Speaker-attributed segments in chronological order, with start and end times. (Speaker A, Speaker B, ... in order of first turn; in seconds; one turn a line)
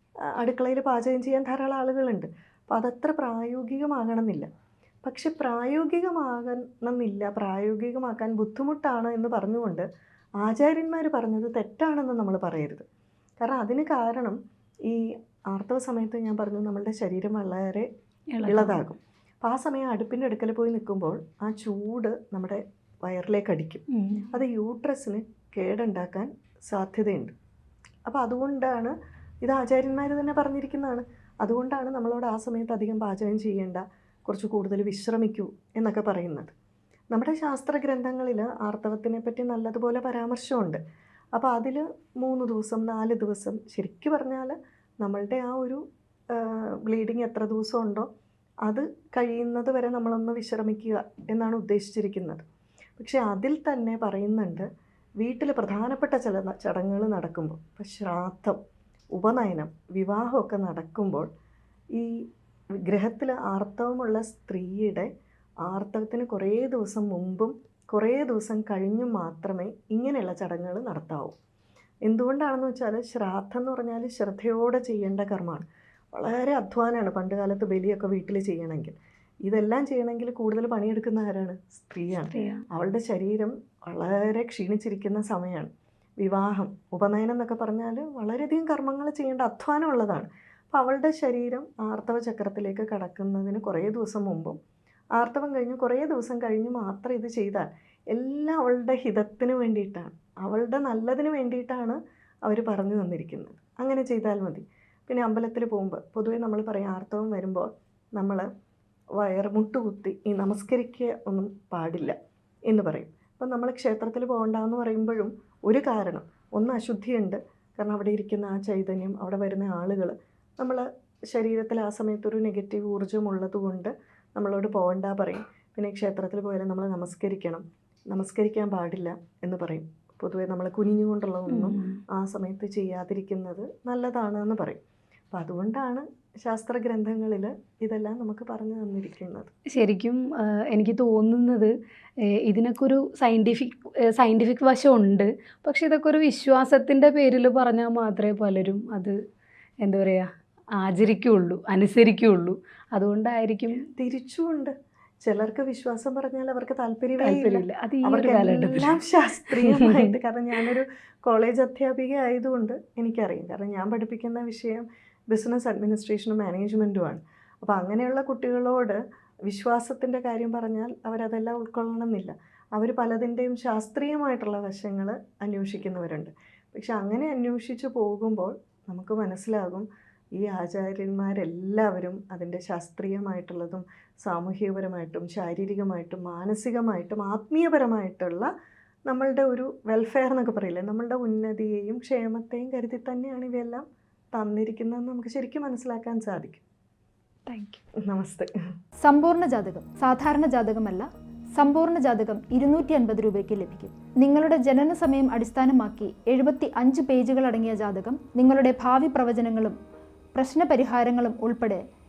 Speaker A: 0.3-4.5
Speaker A: 5.0-9.9
Speaker A: 10.4-12.8
Speaker A: 13.4-17.9
Speaker B: 18.3-18.8
Speaker A: 18.4-27.3
Speaker B: 23.9-24.4
Speaker A: 28.1-36.5
Speaker A: 37.1-40.8
Speaker A: 41.4-45.8
Speaker A: 46.3-48.1
Speaker A: 48.6-52.4
Speaker A: 53.0-54.7
Speaker A: 55.2-58.6
Speaker A: 59.1-61.3
Speaker A: 61.9-62.2
Speaker A: 62.9-65.1
Speaker A: 65.7-71.4
Speaker A: 72.0-94.6
Speaker B: 82.3-82.7
Speaker A: 95.2-108.5
Speaker A: 109.2-112.2
Speaker A: 112.7-134.8
Speaker B: 131.5-132.0
Speaker A: 135.3-139.5
Speaker B: 139.7-141.7
Speaker B: 142.3-149.2
Speaker B: 149.8-153.8
Speaker A: 154.0-188.5
Speaker B: 157.2-159.0
Speaker B: 159.5-160.1
Speaker A: 189.1-196.6
Speaker B: 197.5-197.8
Speaker A: 198.0-198.5
Speaker C: 199.0-209.8
Speaker C: 210.3-211.8